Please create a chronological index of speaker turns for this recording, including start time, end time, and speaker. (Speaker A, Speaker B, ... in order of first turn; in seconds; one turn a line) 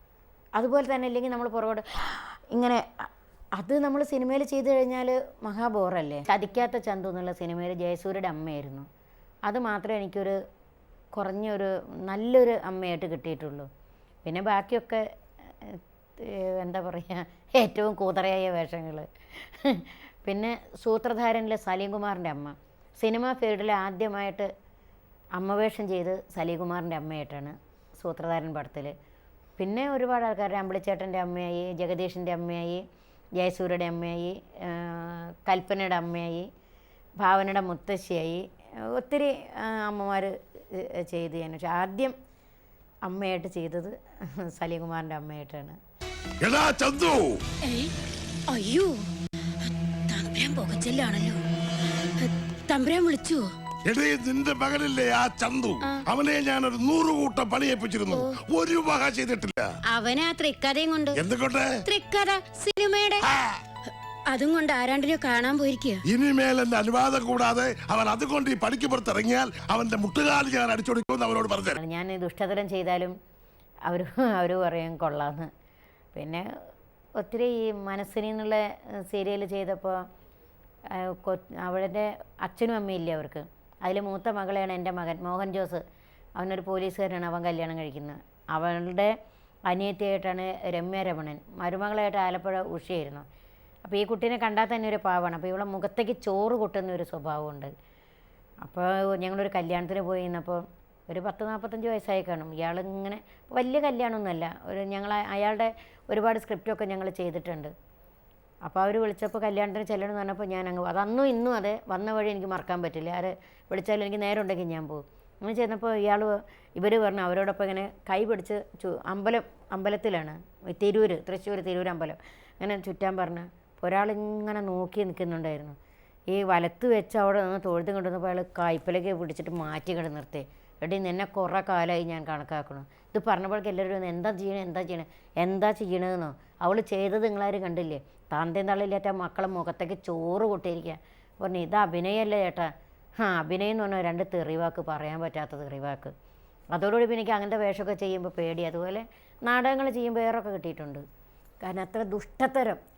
Speaker A: 0.6-8.9
Speaker A: 9.5-10.4
Speaker A: 11.1-13.7
Speaker A: 14.2-24.5
Speaker A: 25.4-28.9
Speaker A: 29.6-32.8
Speaker A: 33.4-36.5
Speaker A: 37.2-42.1
Speaker A: 43.0-45.8
Speaker B: 46.4-47.4
Speaker C: 47.6-47.9
Speaker C: 48.5-49.0
Speaker C: 49.6-51.4
Speaker C: 52.2-53.5
Speaker B: 53.9-59.7
Speaker C: 59.9-61.2
Speaker B: 61.1-61.7
Speaker C: 61.9-63.2
Speaker B: 63.2-63.6
Speaker C: 64.3-66.0
Speaker B: 66.1-71.8
Speaker A: 71.8-73.1
Speaker A: 73.9-75.5
Speaker A: 76.1-76.5
Speaker A: 77.2-80.0
Speaker A: 80.9-85.8
Speaker A: 86.4-89.1
Speaker A: 89.7-93.2
Speaker A: 93.8-97.7
Speaker A: 98.6-107.7
Speaker A: 108.6-125.8
Speaker A: 126.3-146.1
Speaker A: 146.7-151.1
Speaker A: 151.6-152.8